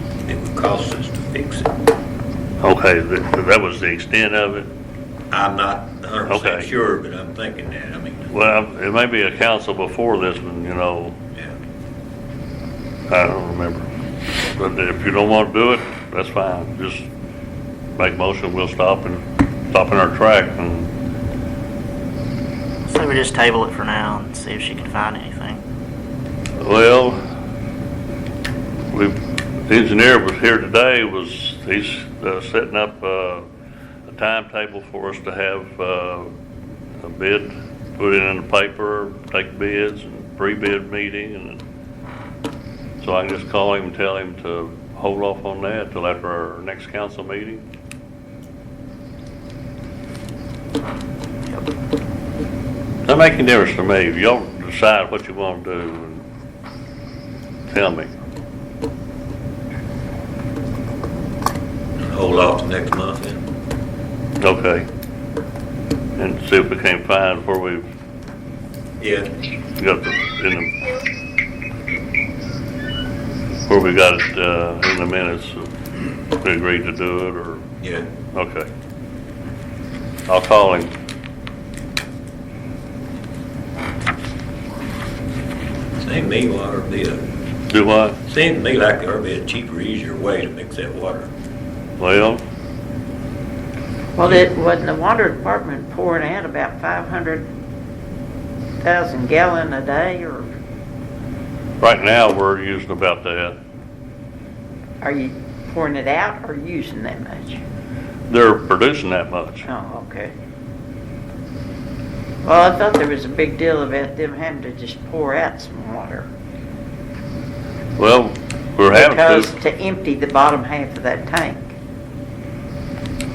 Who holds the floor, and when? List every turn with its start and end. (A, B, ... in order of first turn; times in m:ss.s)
0:00.3-0:01.7 A
0:02.6-0:04.7 B
0:05.3-0:08.3 A
0:06.2-0:06.7 B
0:08.3-0:11.2 B
0:13.1-0:17.1 B
0:18.0-0:20.9 B
0:22.8-0:25.6 C
0:26.6-0:27.2 B
0:28.9-0:33.4 B
0:34.1-0:36.3 B
0:37.0-0:41.6 B
0:43.0-0:47.6 B
0:53.0-0:56.2 B
0:57.7-0:58.1 B
1:02.0-1:03.4 A
1:04.4-1:04.9 B
1:06.2-1:07.9 B
1:09.0-1:09.3 A
1:09.8-1:10.8 B
1:13.7-1:15.7 B
1:16.4-1:17.6 B
1:17.8-1:18.1 A
1:18.3-1:18.7 B
1:20.3-1:20.9 B
1:26.0-1:27.2 A
1:27.7-1:28.2 B
1:28.2-1:31.3 A
1:32.0-1:32.4 B
1:34.2-1:37.5 D
1:38.8-1:40.5 D
1:41.8-1:43.6 B
1:45.0-1:47.6 D
1:48.3-1:49.7 B
1:49.6-1:50.3 D
1:52.4-1:56.3 D
1:58.0-1:59.5 B
1:58.9-2:01.7 D